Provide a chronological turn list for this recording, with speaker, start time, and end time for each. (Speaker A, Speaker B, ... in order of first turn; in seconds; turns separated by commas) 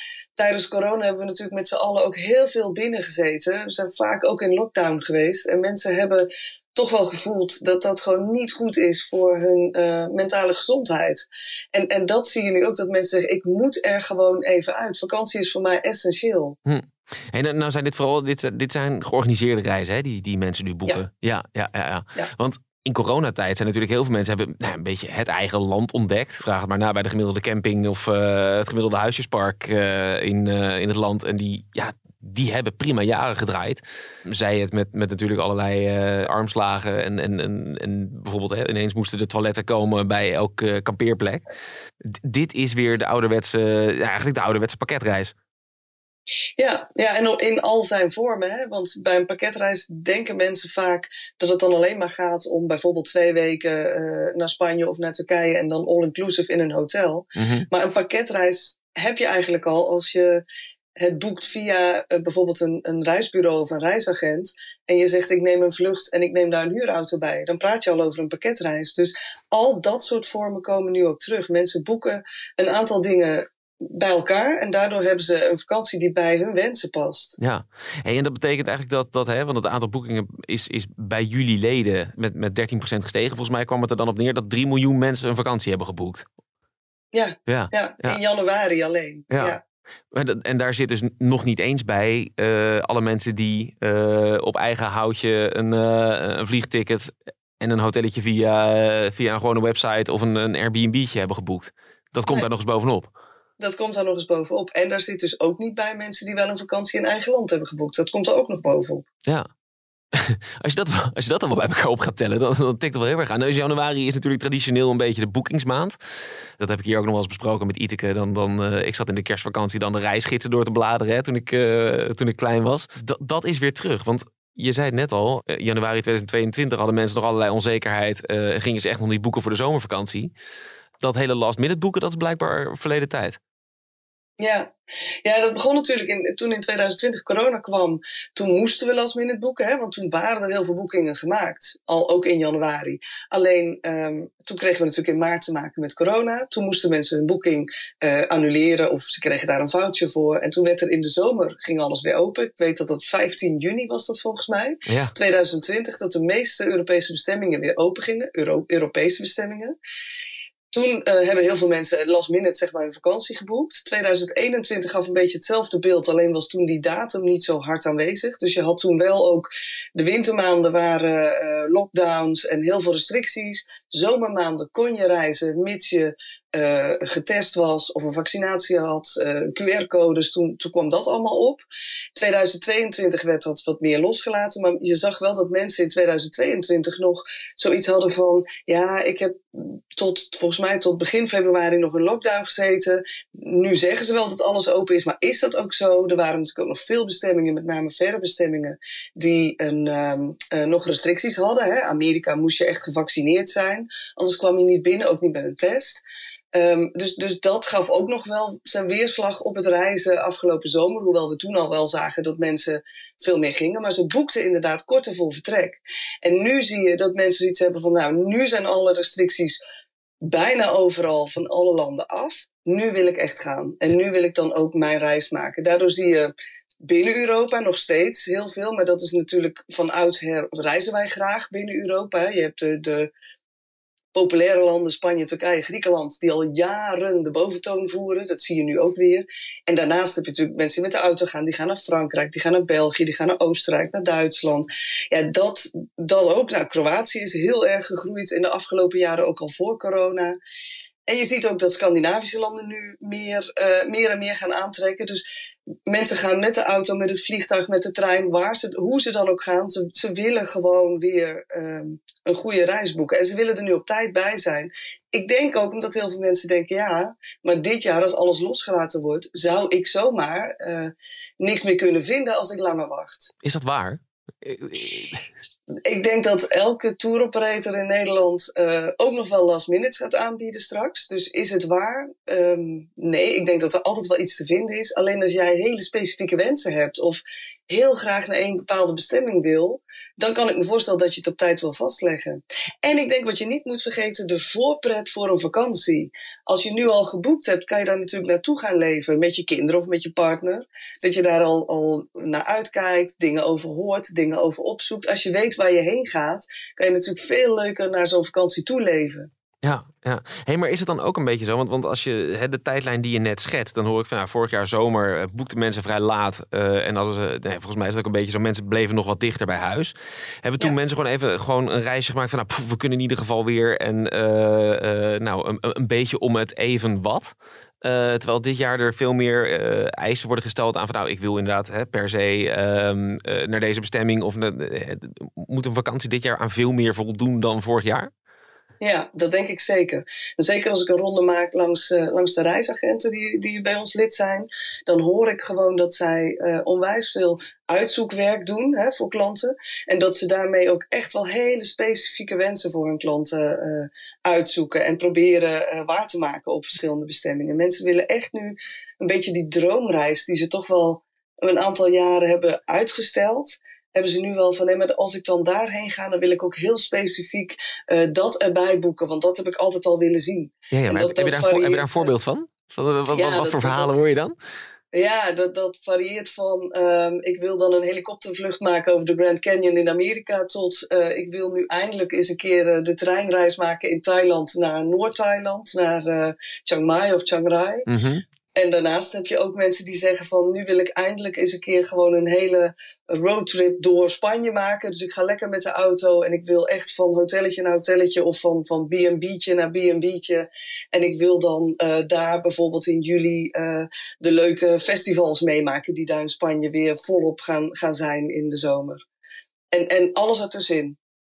Speaker A: 0.4-16.6, Speaker B: 16.6-41.4, Speaker B: 42.0-45.3, Speaker A: 46.6-60.4, Speaker B: 57.4-57.7, Speaker A: 61.0-77.4, Speaker B: 77.4-86.3, Speaker A: 87.1-89.6, Speaker B: 87.5-88.2, Speaker B: 89.3-89.6, Speaker B: 90.1-103.1, Speaker A: 103.6-109.0, Speaker B: 110.1-116.0, Speaker B: 116.6-130.3, Speaker B: 131.0-133.4, Speaker A: 134.4-134.7, Speaker A: 135.2-159.8, Speaker B: 154.9-155.1, Speaker A: 160.7-181.6, Speaker A: 182.2-206.0, Speaker A: 206.5-219.6, Speaker A: 220.2-226.3, Speaker A: 226.8-233.1, Speaker A: 234.1-250.4, Speaker A: 251.1-255.2, Speaker A: 255.9-273.3, Speaker B: 273.4-275.2, Speaker A: 275.8-309.3, Speaker B: 309.6-338.1, Speaker A: 338.8-372.1, Speaker B: 370.7-374.4, Speaker A: 373.1-374.0, Speaker A: 374.9-387.9, Speaker B: 387.9-388.2, Speaker A: 388.6-409.0, Speaker A: 409.7-411.0